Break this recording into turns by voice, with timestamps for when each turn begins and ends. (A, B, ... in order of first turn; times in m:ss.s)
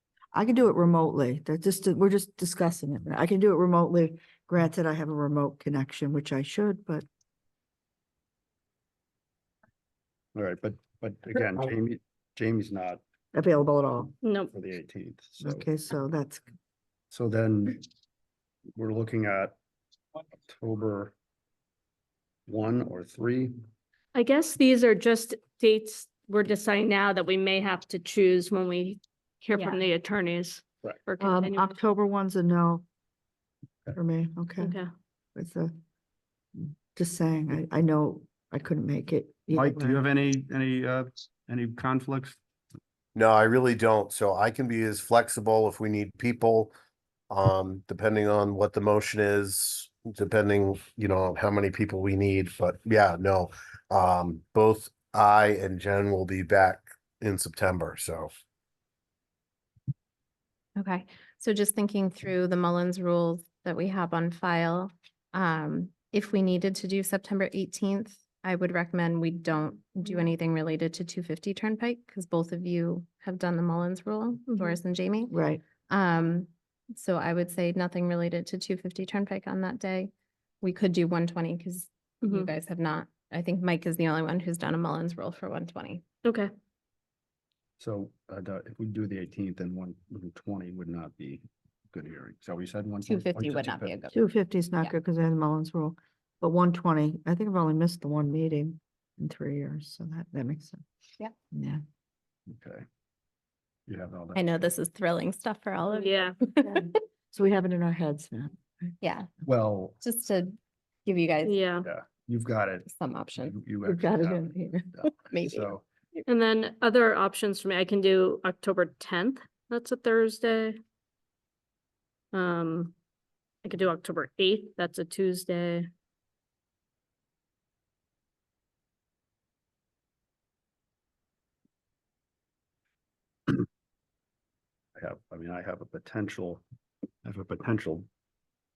0:00.3-0:07.1 A
0:10.4-0:13.0 B
0:13.3-0:14.2 A
0:14.2-0:14.5 C
0:14.5-0:15.7 B
0:15.4-0:16.5 A
0:17.1-0:17.8 B
0:18.8-0:19.6 B
0:20.5-0:21.1 B
0:22.5-0:23.6 B
0:24.1-0:31.8 C
0:31.2-0:32.8 A
0:34.0-0:34.8 A
0:34.6-0:34.9 C
0:35.4-0:35.7 A
0:36.6-0:40.0 A
0:39.5-0:42.4 B
0:43.2-0:46.7 D
0:47.3-0:58.3 D
1:00.8-1:15.3 E
1:14.5-1:14.8 C
1:15.3-1:15.6 A
1:15.9-1:20.1 E
1:20.6-1:26.0 E
1:26.2-1:26.5 C
1:27.8-1:34.0 B
1:33.0-1:34.2 E
1:34.1-1:40.8 A
1:41.5-1:41.8 A
1:42.5-1:42.8 B
1:43.9-1:44.7 B
1:44.4-1:46.8 E
1:45.9-1:46.4 C
1:46.6-1:48.9 A
1:49.0-1:49.3 E
1:49.4-1:50.0 B
1:50.0-1:51.6 E
1:51.4-1:51.9 C
1:51.8-1:55.8 B
1:52.9-1:53.6 E
1:53.8-1:54.9 A
1:55.1-1:56.2 E
1:56.3-2:00.8 C
2:02.3-2:03.0 C
2:03.6-2:05.9 C
2:15.0-2:16.6 B
2:17.2-2:18.1 B